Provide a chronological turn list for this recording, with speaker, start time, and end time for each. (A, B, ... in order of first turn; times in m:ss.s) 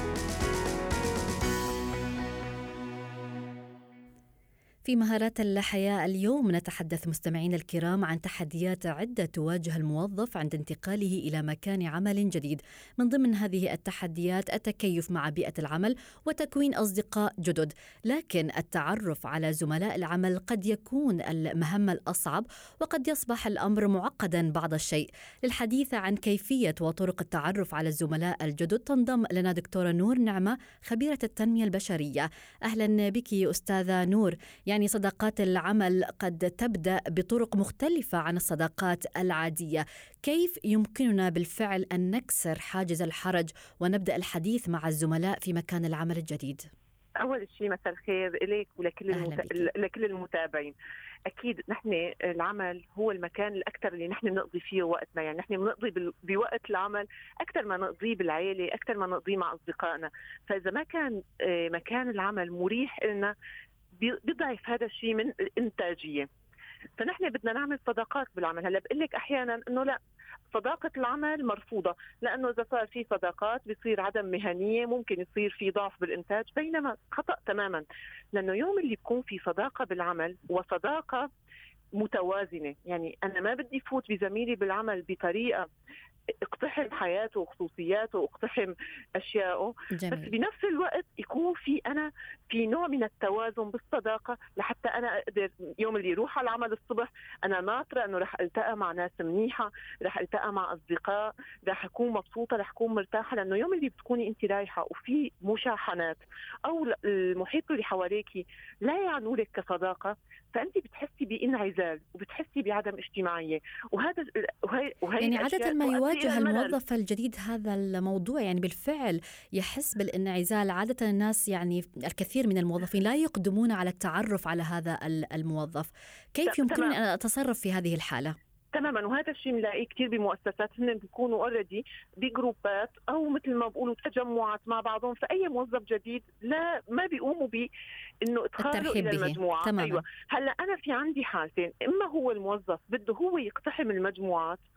0:04.8-0:46.6 A
0:47.2-0:50.7 B
0:49.1-0:49.7 A
0:51.3-1:03.3 B
1:04.0-1:06.3 B
1:07.0-1:10.0 B
1:10.5-1:21.3 B
1:22.0-1:25.7 B
1:26.4-1:56.8 B
1:30.0-1:30.3 A
1:55.2-2:08.4 A
2:06.5-2:07.0 B
2:08.7-2:17.7 B
2:18.2-2:24.6 B
2:18.6-2:20.0 A